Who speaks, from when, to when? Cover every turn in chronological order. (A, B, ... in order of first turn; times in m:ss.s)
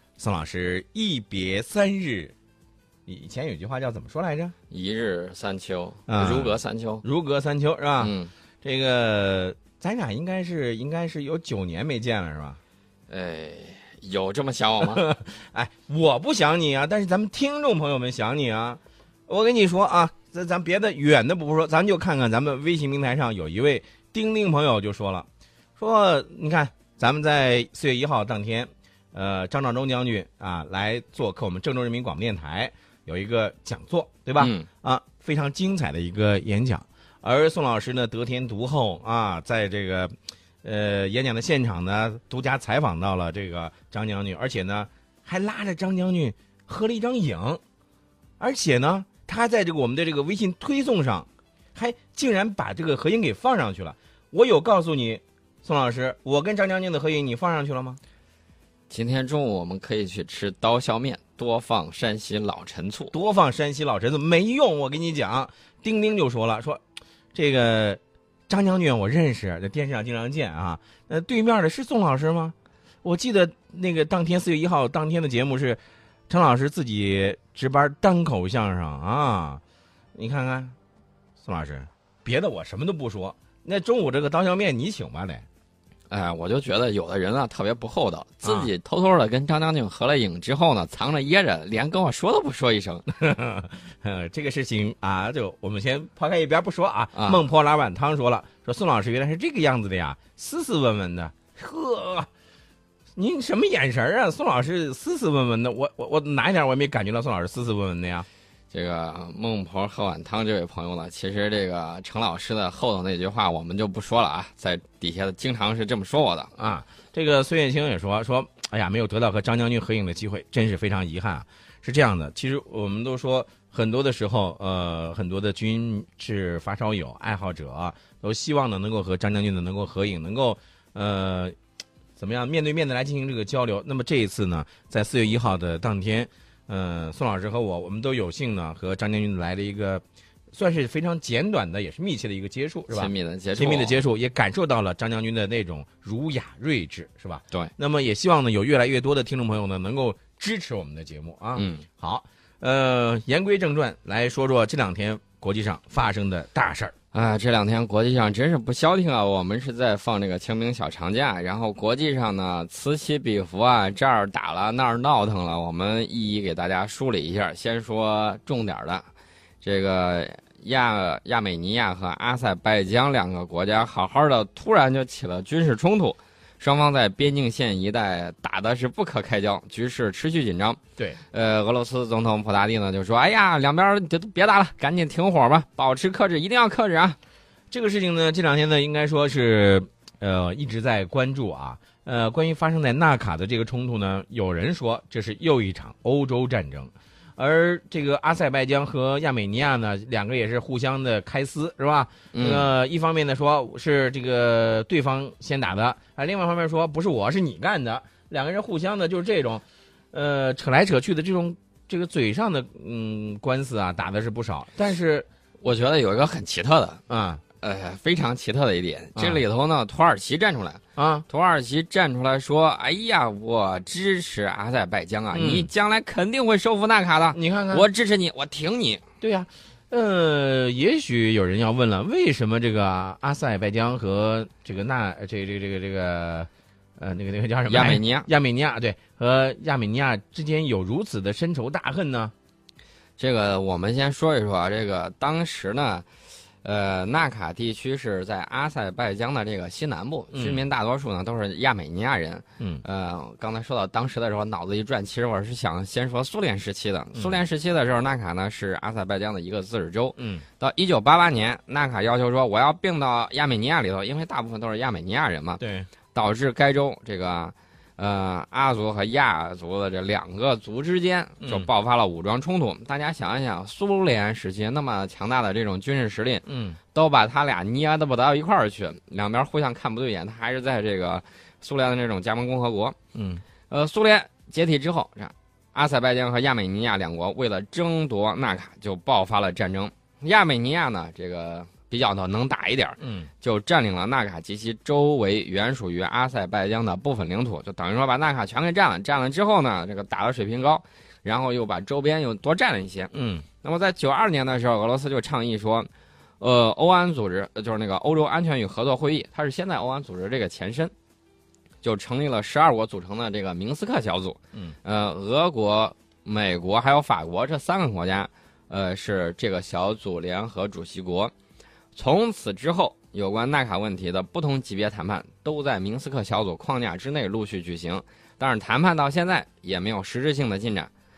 0:00.2-0:02.3 A
0:03.1-0:04.6 A
0:04.7-0:07.0 B
0:06.1-0:12.6 A
0:08.0-0:08.3 B
0:13.1-0:15.0 B
0:14.8-0:47.6 A
0:34.4-0:34.7 B
0:48.4-0:58.0 A
0:58.9-1:03.1 B
1:03.1-1:06.8 A
1:07.3-1:19.6 A
1:20.2-1:20.8 A
1:21.4-1:25.4 A
1:26.1-1:33.1 B
1:28.4-1:28.7 A
1:33.1-1:42.3 A
1:37.2-1:37.4 B
1:43.2-1:48.3 A
1:48.7-1:56.5 B
1:56.6-2:11.6 A
2:12.2-2:36.9 A
2:22.9-2:24.0 B
2:31.6-2:31.9 B
2:37.1-2:49.1 B
2:49.6-3:00.8 B
3:01.3-3:07.2 B
3:07.7-3:35.3 A
3:22.3-3:22.7 B
3:35.6-3:37.0 B
3:37.1-3:37.4 A
3:37.6-3:49.0 B
3:41.0-3:41.3 A
3:45.3-3:45.7 A
3:47.3-3:47.8 A
3:49.2-4:02.3 A
3:57.7-3:58.3 B
4:03.2-4:06.1 B
4:06.6-4:25.6 B
4:10.3-4:10.6 A
4:20.2-4:20.5 A
4:25.6-4:25.9 A
4:26.1-4:43.0 B
4:31.4-4:31.7 A
4:36.5-4:36.8 A
4:43.2-4:43.4 A
4:43.7-5:03.1 B
4:53.0-4:53.3 A
5:03.1-5:03.5 A
5:03.6-5:10.9 B
5:11.8-5:21.3 B
5:21.9-5:30.9 B